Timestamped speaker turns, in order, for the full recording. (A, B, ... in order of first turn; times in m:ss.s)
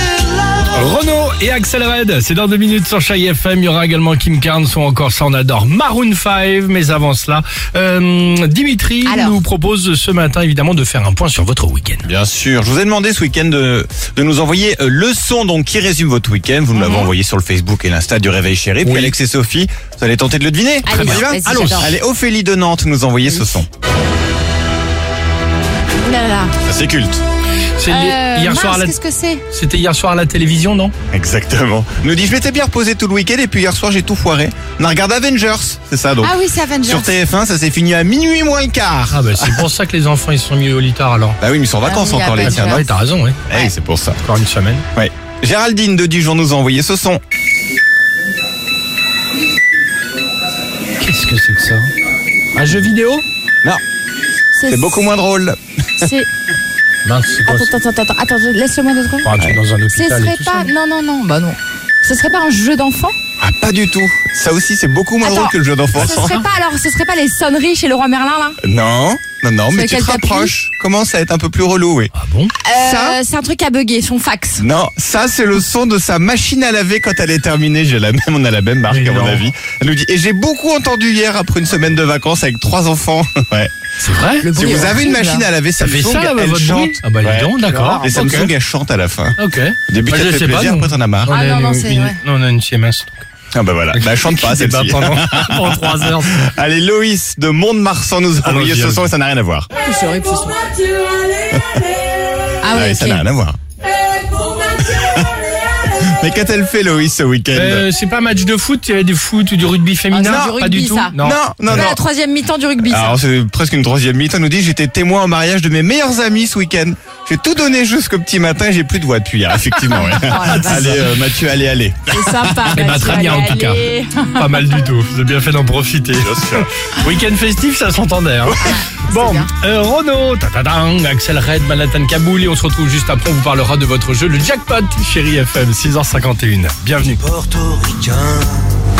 0:00.6-0:12.1 A
0:09.0-0:09.4 B
0:12.0-0:23.7 C
0:16.8-0:17.1 B
0:18.8-0:19.1 A
0:20.9-0:22.0 B
0:20.9-0:22.0 A
0:26.0-0:26.5 B
0:26.6-0:27.2 C
0:27.8-0:29.0 A
0:27.9-0:29.4 B
0:29.5-0:30.9 A
0:31.1-0:39.7 C
0:36.2-0:37.1 B
0:39.1-0:41.4 A
0:41.4-0:42.9 C
0:41.8-0:42.9 B
0:42.3-0:43.4 A
0:43.5-0:44.2 C
0:44.2-0:44.8 A
0:45.0-0:47.2 C
0:51.0-0:51.9 A
0:52.5-0:53.2 A
0:54.5-0:55.1 B
0:54.7-0:55.6 C
0:56.0-0:56.3 B
0:57.0-0:57.7 A
0:57.4-0:59.3 B
0:59.2-1:00.7 A
0:59.9-1:03.2 B
1:03.4-1:06.4 C
1:05.2-1:08.6 B
1:08.6-1:12.1 C
1:09.7-1:10.5 B
1:12.1-1:12.5 A
1:12.6-1:14.7 B
1:12.7-1:13.2 C
1:14.6-1:23.7 C
1:18.9-1:19.4 A
1:24.0-1:24.7 A
1:24.4-1:25.4 B
1:24.6-1:31.3 C
1:25.8-1:28.5 A
1:29.4-1:33.2 A
1:31.3-1:32.2 B
1:33.5-1:39.7 C
1:33.9-1:36.4 A
1:38.4-1:39.1 A
1:39.8-1:41.0 B
1:41.5-1:41.8 C
1:42.6-1:43.2 B
1:42.7-1:43.6 C
1:44.8-1:45.3 C
1:45.9-1:47.8 C
1:47.5-1:52.0 A
1:50.1-1:51.2 B
1:50.2-1:50.6 C
1:51.2-1:52.0 C
1:51.7-1:53.2 B
1:52.9-2:03.3 C
1:59.7-2:01.2 A
2:00.1-2:01.1 B
2:02.1-2:04.7 B
2:02.6-2:18.5 A
2:06.2-2:06.8 C
2:08.6-2:09.5 B